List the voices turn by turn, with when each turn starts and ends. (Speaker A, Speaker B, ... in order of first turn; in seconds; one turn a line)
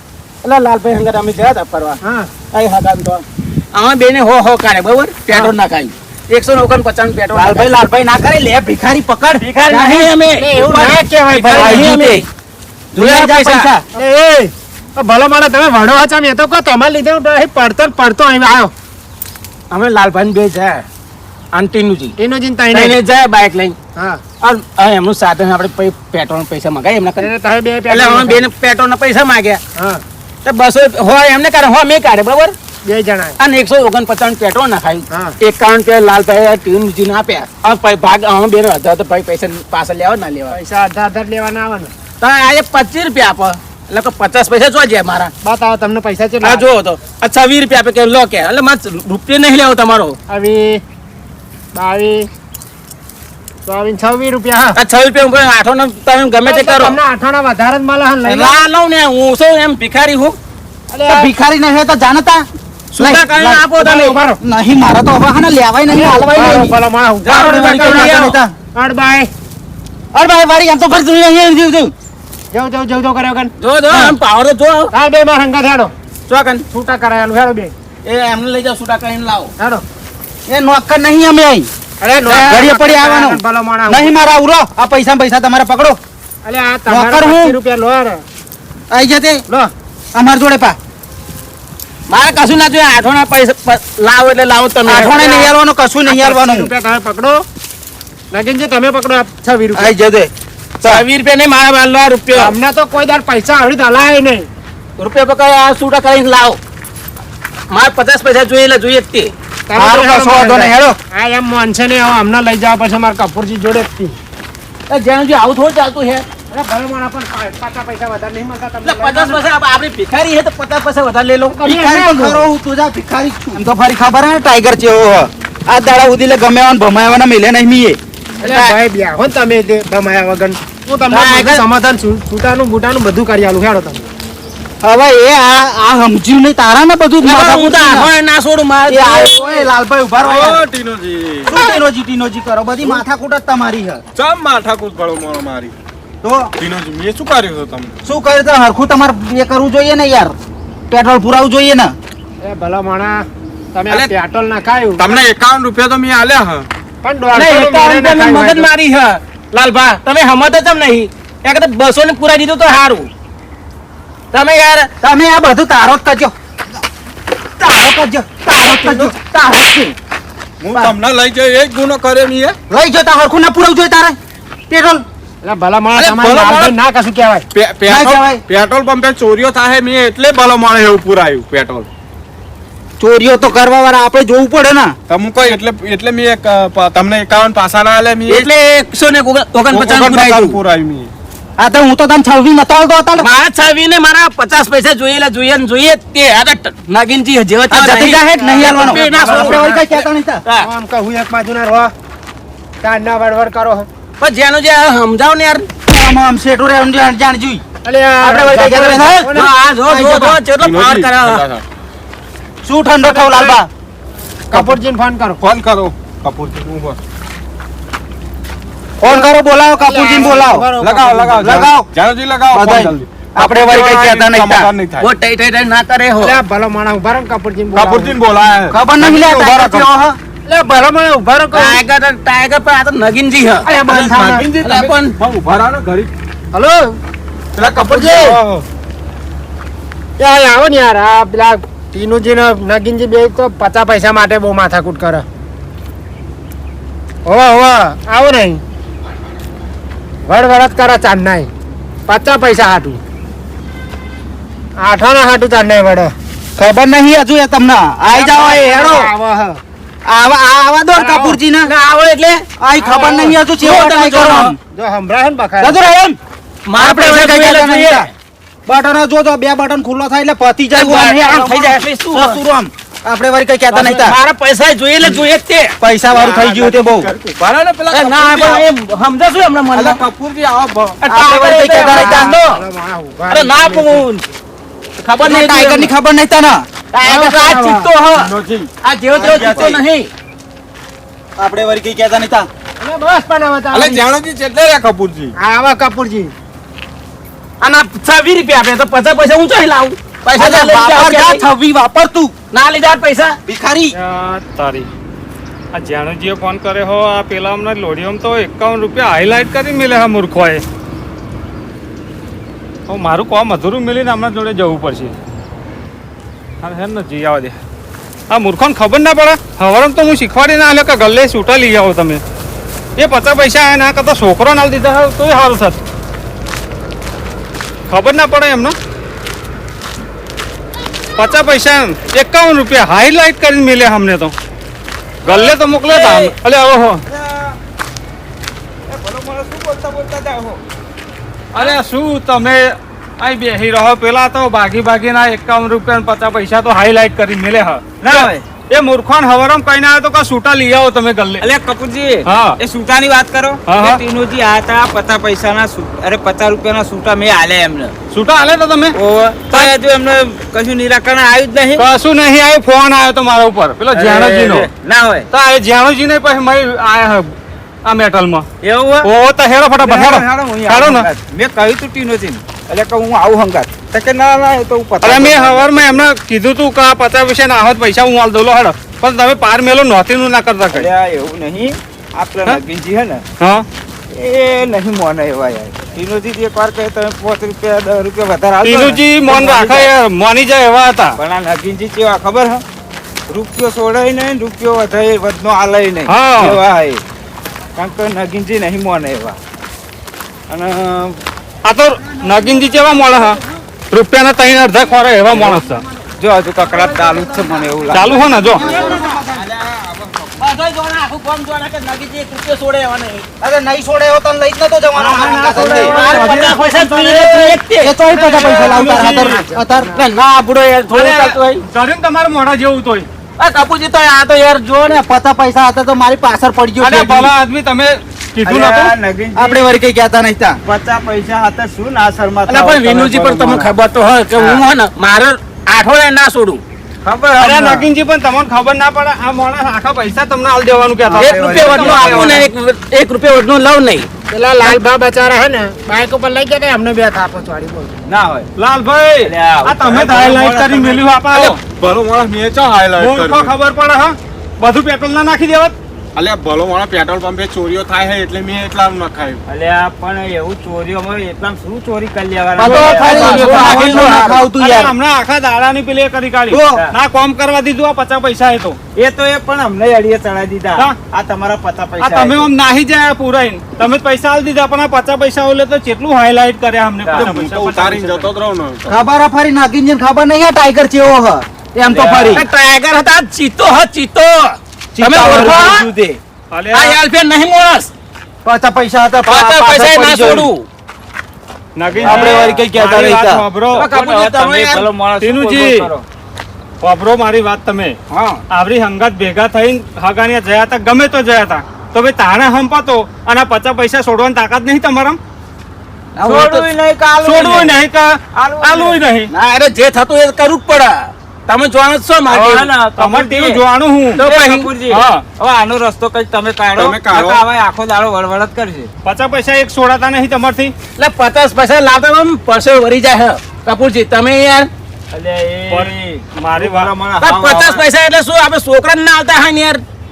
Speaker A: 0.4-7.7
Speaker B: 2.0-2.3
Speaker C: 7.3-10.1
Speaker A: 9.4-12.2
Speaker B: 10.3-11.9
Speaker C: 11.5-12.2
Speaker C: 12.9-13.8
Speaker A: 12.9-13.7
Speaker B: 13.9-18.7
Speaker A: 19.7-20.9
Speaker A: 21.5-22.1
Speaker B: 22.2-23.0
Speaker A: 22.7-23.8
Speaker B: 23.9-24.2
Speaker A: 24.4-27.3
Speaker B: 27.2-28.5
Speaker A: 27.9-29.6
Speaker B: 29.7-30.0
Speaker A: 30.4-32.5
Speaker B: 32.8-33.4
Speaker A: 33.4-40.6
Speaker B: 35.1-35.4
Speaker B: 40.5-41.9
Speaker A: 42.2-45.3
Speaker B: 45.4-46.7
Speaker A: 46.4-50.2
Speaker B: 50.3-50.8
Speaker B: 51.7-52.3
Speaker B: 53.6-54.8
Speaker A: 54.7-57.0
Speaker B: 56.4-58.6
Speaker A: 58.2-60.4
Speaker B: 60.9-61.3
Speaker C: 61.0-62.4
Speaker A: 62.9-64.2
Speaker C: 63.0-66.8
Speaker B: 63.9-64.4
Speaker B: 65.9-68.2
Speaker A: 67.2-68.4
Speaker C: 67.3-68.5
Speaker B: 68.7-69.3
Speaker C: 70.1-71.9
Speaker B: 72.5-73.5
Speaker A: 73.6-74.9
Speaker C: 73.9-74.2
Speaker B: 74.9-75.9
Speaker A: 76.3-76.6
Speaker B: 76.7-77.7
Speaker A: 78.0-79.5
Speaker B: 79.6-79.8
Speaker C: 80.5-81.7
Speaker B: 82.0-84.1
Speaker C: 82.2-86.0
Speaker B: 86.4-88.2
Speaker C: 86.9-87.6
Speaker C: 88.9-89.4
Speaker C: 90.1-90.8
Speaker A: 92.1-95.3
Speaker C: 94.8-96.7
Speaker B: 95.1-95.5
Speaker B: 96.1-97.4
Speaker B: 98.3-99.9
Speaker C: 99.8-100.3
Speaker A: 100.8-102.5
Speaker B: 102.3-104.5
Speaker A: 105.0-106.6
Speaker A: 107.7-109.3
Speaker B: 109.7-114.2
Speaker C: 109.8-111.0
Speaker A: 114.9-116.2
Speaker B: 116.5-119.4
Speaker A: 118.8-121.6
Speaker B: 121.5-122.5
Speaker C: 121.6-128.0
Speaker B: 128.4-134.1
Speaker A: 128.4-128.8
Speaker A: 131.1-131.6
Speaker C: 134.8-138.1
Speaker A: 137.2-139.4
Speaker C: 138.9-140.6
Speaker D: 140.2-141.5
Speaker C: 141.4-144.0
Speaker D: 144.2-145.7
Speaker C: 146.2-146.5
Speaker D: 146.6-147.9
Speaker C: 148.0-150.3
Speaker C: 150.9-151.9
Speaker B: 152.4-155.1
Speaker D: 155.0-156.7
Speaker B: 157.0-158.7
Speaker A: 157.3-163.1
Speaker A: 164.3-164.9
Speaker C: 165.0-166.3
Speaker C: 167.6-169.9
Speaker D: 168.6-169.1
Speaker D: 170.6-172.6
Speaker C: 172.7-174.2
Speaker C: 174.7-175.0
Speaker B: 175.4-177.4
Speaker D: 175.9-176.8
Speaker D: 177.5-181.9
Speaker C: 177.8-178.4
Speaker C: 183.0-184.9
Speaker D: 185.1-188.5
Speaker A: 188.3-190.6
Speaker D: 189.7-191.1
Speaker C: 191.6-193.3
Speaker A: 193.2-200.7
Speaker C: 197.7-200.4
Speaker B: 198.3-199.9
Speaker B: 200.6-201.9
Speaker B: 202.8-203.9
Speaker A: 204.2-205.7
Speaker C: 205.9-207.6
Speaker B: 207.8-209.5
Speaker C: 208.2-209.3
Speaker A: 208.2-211.4
Speaker C: 209.9-210.4
Speaker D: 210.6-211.6
Speaker C: 212.6-213.7
Speaker B: 213.0-213.6
Speaker B: 214.5-215.4
Speaker D: 214.5-214.8
Speaker D: 215.4-217.0
Speaker C: 219.0-220.7
Speaker B: 219.0-221.6
Speaker D: 220.8-225.1
Speaker C: 221.3-221.8
Speaker C: 222.5-224.7
Speaker A: 225.0-226.4
Speaker B: 226.2-228.2
Speaker D: 227.7-229.9
Speaker C: 228.7-230.2
Speaker B: 230.4-231.8
Speaker A: 231.5-233.7
Speaker B: 233.7-234.5
Speaker D: 233.7-236.1
Speaker A: 234.6-235.1
Speaker B: 236.5-237.0
Speaker D: 237.6-238.6
Speaker B: 237.6-238.4
Speaker B: 240.2-245.2
Speaker B: 247.2-248.6
Speaker B: 250.2-251.5
Speaker B: 252.1-253.0
Speaker B: 254.8-256.1
Speaker C: 256.6-259.1
Speaker B: 258.1-259.6
Speaker C: 260.1-261.7
Speaker B: 260.9-261.4
Speaker A: 261.6-262.4
Speaker C: 262.6-264.6
Speaker B: 262.8-263.4
Speaker A: 263.6-264.5
Speaker B: 264.7-265.9
Speaker C: 265.6-266.2
Speaker A: 266.6-268.1
Speaker C: 266.8-268.1
Speaker C: 268.7-274.2
Speaker A: 270.7-272.4
Speaker A: 273.7-275.8
Speaker C: 275.8-277.1
Speaker D: 276.1-278.6
Speaker A: 277.9-280.0
Speaker D: 279.7-281.0
Speaker A: 281.0-282.6
Speaker C: 281.1-282.3
Speaker B: 281.7-284.1
Speaker A: 283.3-284.1
Speaker A: 285.0-285.9
Speaker C: 285.2-286.6
Speaker A: 286.9-290.1
Speaker B: 287.0-287.9
Speaker D: 288.1-288.7
Speaker C: 289.1-289.8
Speaker D: 289.4-289.6
Speaker C: 291.4-292.5
Speaker B: 292.8-294.0
Speaker D: 293.7-295.3
Speaker B: 295.4-296.3
Speaker A: 297.6-301.5
Speaker C: 300.3-302.3
Speaker A: 302.5-303.4
Speaker C: 303.4-304.0
Speaker E: 303.9-304.9
Speaker E: 305.7-310.6
Speaker E: 312.9-315.1
Speaker E: 316.6-317.6
Speaker E: 318.3-322.2
Speaker E: 323.0-325.8
Speaker E: 327.9-328.7
Speaker E: 331.1-334.3
Speaker F: 335.2-336.3
Speaker E: 335.2-337.0
Speaker F: 337.1-337.6
Speaker F: 338.9-340.6
Speaker E: 341.5-351.4
Speaker F: 348.0-348.4
Speaker F: 351.4-357.9
Speaker E: 352.2-352.6
Speaker E: 353.6-354.0
Speaker E: 358.1-358.9
Speaker F: 358.9-361.8
Speaker E: 361.8-364.7
Speaker F: 363.9-365.3
Speaker E: 365.3-367.3
Speaker E: 367.8-368.5
Speaker F: 368.6-369.1
Speaker E: 369.0-371.1
Speaker F: 369.8-376.0
Speaker E: 375.0-380.9
Speaker F: 380.7-383.2
Speaker E: 383.4-383.6
Speaker F: 384.1-389.9
Speaker E: 388.6-391.2
Speaker F: 391.2-392.6
Speaker F: 393.3-397.0
Speaker E: 396.1-396.6
Speaker F: 397.8-399.4
Speaker F: 400.5-401.2
Speaker E: 401.6-405.8
Speaker C: 402.0-403.4
Speaker F: 405.3-405.6
Speaker F: 406.2-408.9
Speaker C: 406.6-409.5
Speaker E: 407.9-408.6
Speaker A: 408.6-409.2
Speaker A: 410.4-413.2
Speaker C: 413.4-419.9
Speaker E: 414.9-416.6
Speaker A: 415.5-417.9
Speaker E: 418.1-419.4
Speaker B: 418.4-420.1
Speaker A: 419.9-421.6
Speaker E: 420.9-423.1
Speaker A: 423.4-425.0
Speaker C: 424.9-427.3
Speaker E: 426.8-428.9
Speaker F: 428.4-429.6
Speaker C: 429.3-430.6
Speaker F: 430.6-433.7
Speaker A: 432.5-436.6
Speaker F: 437.0-437.9
Speaker E: 437.4-442.5
Speaker F: 441.1-442.4
Speaker A: 441.1-444.1
Speaker B: 444.3-447.9
Speaker F: 448.1-448.5
Speaker E: 448.6-451.6
Speaker F: 449.2-451.1
Speaker D: 451.3-453.5
Speaker E: 453.0-455.7
Speaker D: 456.1-459.4
Speaker F: 459.5-464.4
Speaker E: 462.6-468.8
Speaker C: 462.6-464.9
Speaker A: 462.6-464.4
Speaker C: 466.5-466.8
Speaker F: 468.9-472.5
Speaker E: 472.0-478.3
Speaker F: 477.0-477.3
Speaker D: 477.1-479.0
Speaker C: 478.9-482.4
Speaker F: 481.8-482.4
Speaker A: 482.3-485.9
Speaker F: 484.9-486.2
Speaker C: 485.1-485.5
Speaker E: 486.5-487.0
Speaker A: 486.7-487.9
Speaker C: 488.4-490.5
Speaker A: 489.2-490.6
Speaker E: 491.8-494.0
Speaker F: 491.9-492.6
Speaker C: 492.0-493.4
Speaker A: 493.7-494.9
Speaker F: 493.7-496.0
Speaker E: 495.2-495.9
Speaker E: 496.8-497.9
Speaker E: 498.5-505.2
Speaker F: 506.2-507.8
Speaker A: 506.2-506.6
Speaker E: 507.2-509.3
Speaker F: 508.3-509.0
Speaker A: 509.3-512.7
Speaker E: 512.3-514.3
Speaker F: 512.3-513.6
Speaker A: 514.2-514.7
Speaker F: 514.2-518.9
Speaker E: 514.9-515.2
Speaker D: 516.7-517.4
Speaker E: 519.0-520.7
Speaker A: 521.0-524.7
Speaker F: 525.1-527.9
Speaker E: 525.7-526.9
Speaker A: 527.2-529.8